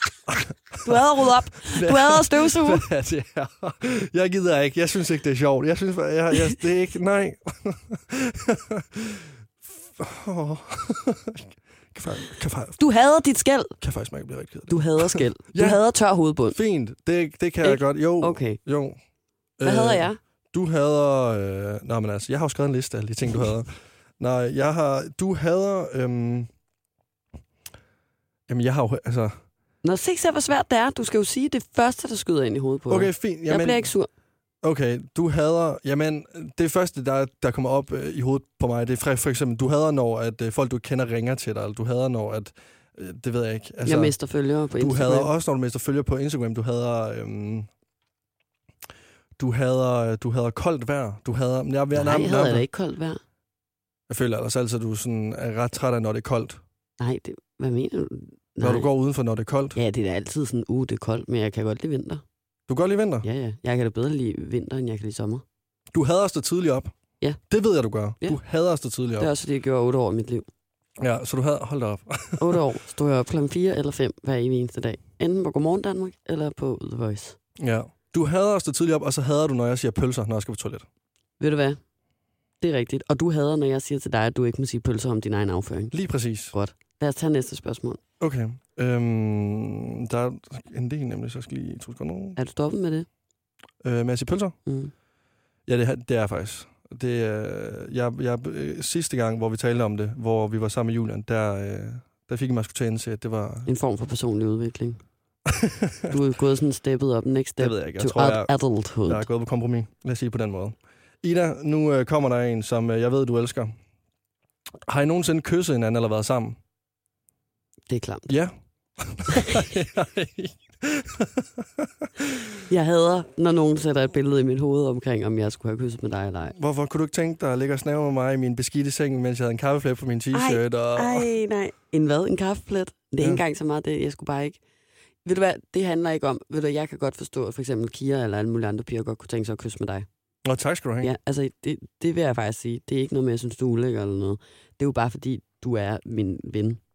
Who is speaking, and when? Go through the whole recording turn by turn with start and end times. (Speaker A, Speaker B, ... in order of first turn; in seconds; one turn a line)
Speaker A: 0.3-12.8
Speaker B: 0.8-2.9
Speaker B: 12.8-13.7
Speaker A: 13.8-15.8
Speaker B: 14.7-16.6
Speaker A: 16.5-19.0
Speaker B: 17.6-18.6
Speaker A: 19.6-26.5
Speaker B: 19.6-20.2
Speaker A: 28.5-29.4
Speaker B: 29.8-34.1
Speaker A: 32.9-33.9
Speaker A: 34.6-44.1
Speaker B: 43.8-45.3
Speaker A: 44.8-47.7
Speaker A: 49.4-52.6
Speaker B: 51.9-53.2
Speaker A: 54.1-56.6
Speaker B: 57.0-58.9
Speaker A: 58.6-59.8
Speaker B: 59.7-62.2
Speaker A: 62.7-63.2
Speaker B: 63.2-65.4
Speaker A: 65.9-66.9
Speaker A: 67.5-69.3
Speaker B: 69.2-70.5
Speaker A: 71.0-72.6
Speaker B: 72.4-77.4
Speaker A: 77.6-80.8
Speaker B: 81.4-81.8
Speaker B: 82.6-85.9
Speaker A: 85.9-86.5
Speaker B: 86.5-88.0
Speaker A: 88.2-92.4
Speaker B: 92.3-93.1
Speaker A: 93.8-94.6
Speaker B: 94.7-94.9
Speaker A: 95.7-103.7
Speaker B: 103.6-105.0
Speaker A: 105.5-106.1
Speaker B: 106.1-109.3
Speaker A: 107.6-108.5
Speaker A: 109.0-113.7
Speaker A: 114.8-116.6
Speaker B: 117.9-118.3
Speaker A: 118.3-122.6
Speaker B: 119.3-119.6
Speaker B: 122.7-126.5
Speaker A: 126.5-131.3
Speaker B: 130.3-134.6
Speaker B: 135.2-140.1
Speaker A: 140.4-141.1
Speaker B: 141.0-146.8